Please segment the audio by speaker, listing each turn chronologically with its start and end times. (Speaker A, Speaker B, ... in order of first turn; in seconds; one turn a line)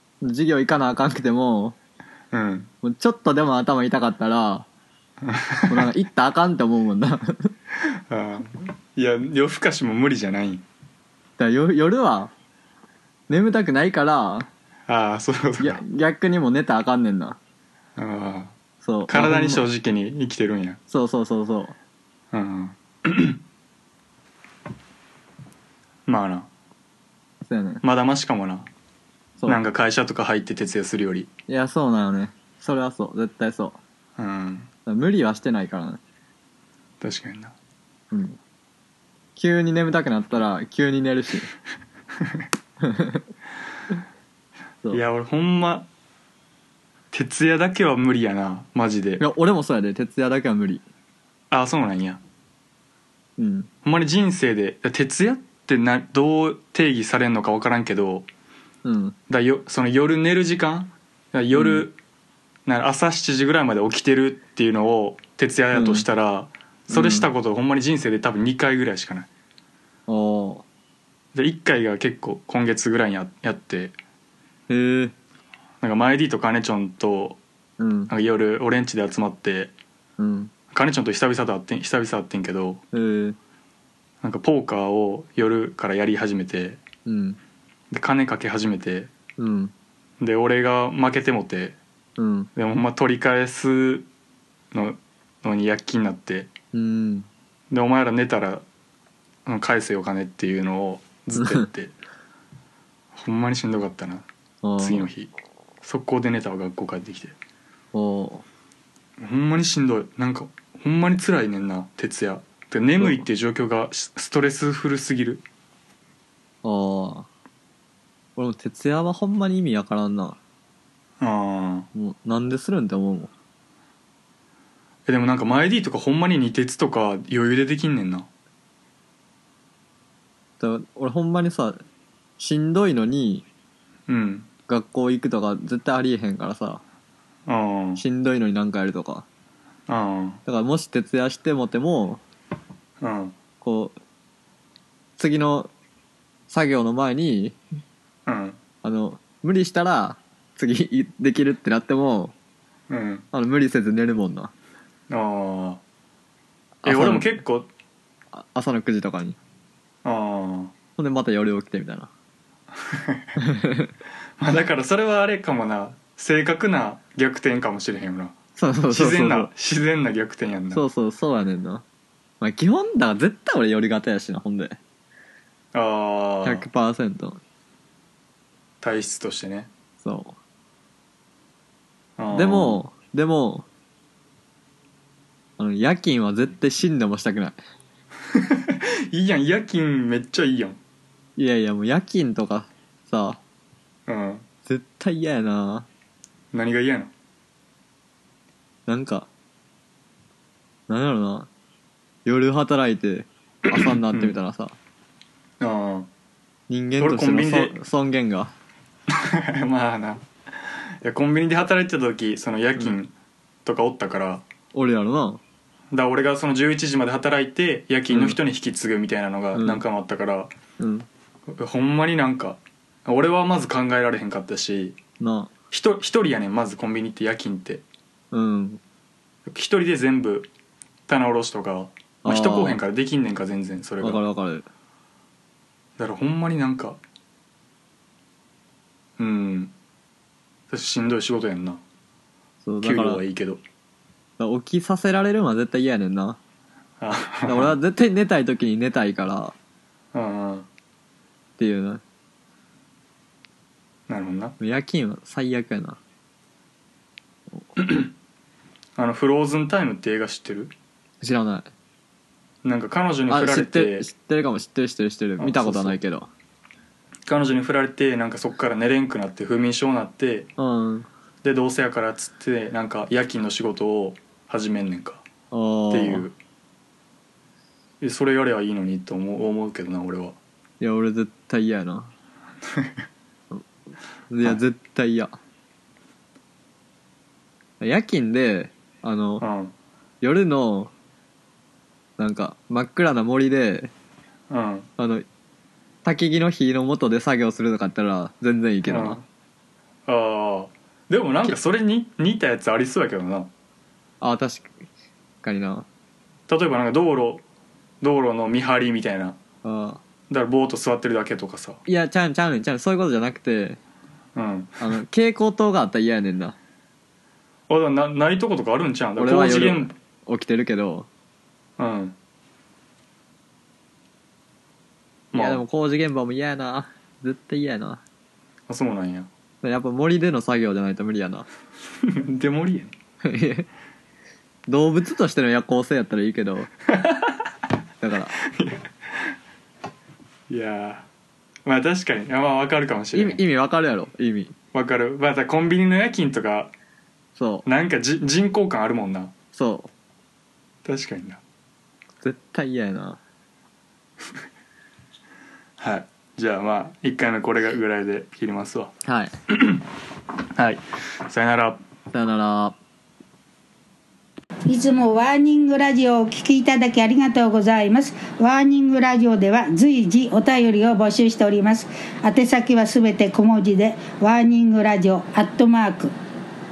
Speaker A: 0.2-1.8
Speaker B: 2.3-2.7
Speaker A: 2.8-4.7
Speaker B: 5.2-5.9
Speaker A: 5.7-7.5
Speaker B: 7.8-10.6
Speaker A: 11.4-12.3
Speaker A: 13.3-14.5
Speaker B: 14.9-15.8
Speaker A: 15.6-17.4
Speaker B: 18.0-18.5
Speaker A: 18.8-19.6
Speaker B: 19.1-20.8
Speaker A: 20.9-21.8
Speaker B: 22.3-23.4
Speaker B: 26.1-26.5
Speaker A: 27.4-27.8
Speaker B: 27.8-28.7
Speaker B: 29.4-31.3
Speaker A: 31.5-33.8
Speaker B: 34.2-34.7
Speaker A: 34.9-36.0
Speaker B: 37.0-37.5
Speaker A: 38.1-38.4
Speaker A: 39.4-41.5
Speaker A: 42.8-43.2
Speaker B: 44.9-45.9
Speaker B: 47.1-49.2
Speaker A: 49.2-50.8
Speaker B: 51.5-52.2
Speaker A: 53.4-53.7
Speaker B: 53.8-58.3
Speaker A: 58.8-59.1
Speaker B: 59.3-62.0
Speaker A: 61.5-61.9
Speaker B: 62.6-69.3
Speaker A: 65.7-66.1
Speaker A: 66.9-67.3
Speaker A: 70.1-70.6
Speaker B: 71.3-73.9
Speaker A: 74.7-75.1
Speaker B: 75.8-77.4
Speaker A: 77.8-78.1
Speaker B: 78.1-79.7
Speaker A: 80.2-80.5
Speaker B: 80.7-82.8
Speaker A: 82.9-83.4
Speaker B: 84.2-86.8
Speaker A: 87.0-87.4
Speaker B: 87.9-89.1
Speaker A: 89.4-89.7
Speaker B: 90.2-91.8
Speaker A: 92.2-92.5
Speaker B: 92.5-94.1
Speaker B: 94.7-96.5
Speaker A: 96.7-97.3
Speaker B: 97.7-98.6
Speaker B: 99.5-101.9
Speaker A: 101.3-101.7
Speaker B: 103.1-104.3
Speaker A: 104.6-105.1
Speaker B: 104.8-105.3
Speaker B: 105.8-107.3
Speaker A: 107.9-108.4
Speaker B: 109.2-115.4
Speaker A: 116.6-117.3
Speaker A: 118.3-120.4
Speaker B: 121.2-121.9
Speaker A: 121.9-123.3
Speaker B: 125.0-128.3
Speaker A: 130.6-131.8
Speaker A: 132.4-133.4
Speaker B: 134.1-134.5
Speaker A: 134.7-136.8
Speaker B: 137.5-138.0
Speaker A: 138.0-139.2
Speaker B: 139.9-140.4
Speaker A: 140.4-142.2
Speaker B: 143.0-143.3
Speaker A: 143.6-143.9
Speaker A: 145.2-145.7
Speaker A: 146.5-147.6
Speaker B: 148.2-148.6
Speaker A: 148.8-152.3
Speaker B: 152.9-153.2
Speaker A: 153.3-154.5
Speaker B: 155.1-155.8
Speaker A: 156.8-157.3
Speaker B: 156.8-157.7
Speaker A: 158.3-159.4
Speaker B: 160.0-160.7
Speaker A: 161.0-162.1
Speaker B: 162.8-163.3
Speaker A: 163.4-163.9
Speaker B: 164.4-168.3
Speaker A: 168.6-169.5
Speaker B: 168.9-170.8
Speaker A: 170.7-171.8
Speaker A: 172.4-174.8
Speaker B: 175.7-176.7
Speaker A: 176.4-177.4
Speaker B: 178.8-179.7
Speaker A: 180.0-180.4
Speaker B: 182.2-182.8
Speaker A: 182.3-183.7
Speaker A: 185.6-187.6
Speaker B: 188.3-190.8
Speaker A: 191.4-193.4
Speaker B: 194.1-194.4
Speaker A: 194.7-195.9
Speaker B: 196.5-197.1
Speaker A: 198.9-199.3
Speaker A: 200.9-201.5
Speaker A: 202.2-204.8
Speaker B: 203.7-204.3
Speaker B: 205.6-206.1
Speaker A: 206.7-208.5
Speaker B: 207.0-207.8
Speaker B: 209.1-213.1
Speaker B: 213.6-214.4
Speaker A: 214.7-215.4
Speaker B: 215.9-220.5
Speaker A: 218.1-218.4
Speaker A: 219.5-219.8
Speaker A: 220.8-221.1
Speaker B: 221.5-225.0
Speaker A: 225.2-225.5
Speaker B: 225.7-227.8
Speaker A: 228.3-228.8
Speaker B: 229.4-230.5
Speaker B: 231.1-234.2
Speaker A: 232.2-232.8
Speaker A: 234.0-234.7
Speaker B: 236.0-237.0
Speaker B: 239.2-239.7
Speaker B: 240.7-241.8
Speaker A: 242.6-243.2
Speaker B: 242.8-243.6
Speaker A: 244.4-246.4
Speaker B: 247.0-247.8
Speaker A: 247.4-249.5
Speaker B: 250.1-250.7
Speaker A: 251.6-252.0
Speaker B: 254.1-254.6
Speaker A: 254.6-256.0
Speaker B: 257.8-258.1
Speaker B: 259.0-260.7
Speaker A: 261.2-261.7
Speaker B: 262.6-264.1
Speaker A: 263.3-266.3
Speaker B: 265.4-266.0
Speaker B: 267.2-270.5
Speaker A: 270.6-271.1
Speaker B: 271.4-275.2
Speaker A: 275.5-276.3
Speaker B: 275.9-276.3
Speaker B: 278.0-280.4
Speaker A: 280.8-282.1
Speaker A: 284.3-285.3
Speaker A: 287.8-289.5
Speaker B: 289.4-289.7
Speaker A: 290.2-290.9
Speaker A: 292.2-293.9
Speaker B: 294.5-294.9
Speaker A: 295.0-295.2
Speaker A: 296.0-299.2
Speaker B: 298.9-299.2
Speaker B: 300.1-303.5
Speaker A: 304.2-304.7
Speaker A: 305.4-305.9
Speaker B: 306.5-307.4
Speaker B: 308.0-309.4
Speaker A: 309.6-310.0
Speaker B: 310.3-311.8
Speaker A: 311.9-313.8
Speaker B: 314.3-314.9
Speaker A: 314.8-316.6
Speaker B: 317.7-319.9
Speaker A: 319.2-321.1
Speaker B: 321.8-322.2
Speaker B: 325.3-325.6
Speaker A: 325.3-328.0
Speaker B: 328.7-329.3
Speaker A: 329.6-331.4
Speaker B: 332.0-332.9
Speaker A: 333.2-333.7
Speaker A: 334.7-336.7
Speaker B: 336.9-337.4
Speaker A: 338.0-338.4
Speaker B: 338.4-339.4
Speaker B: 340.5-341.1
Speaker B: 341.6-343.4
Speaker A: 343.1-344.5
Speaker B: 344.7-346.7
Speaker A: 347.4-347.6
Speaker B: 347.6-349.3
Speaker A: 349.5-349.9
Speaker B: 350.8-351.4
Speaker A: 352.2-353.2
Speaker B: 355.8-358.9
Speaker A: 359.0-359.3
Speaker B: 359.5-359.9
Speaker B: 360.5-361.8
Speaker A: 362.1-362.8
Speaker C: 364.6-376.1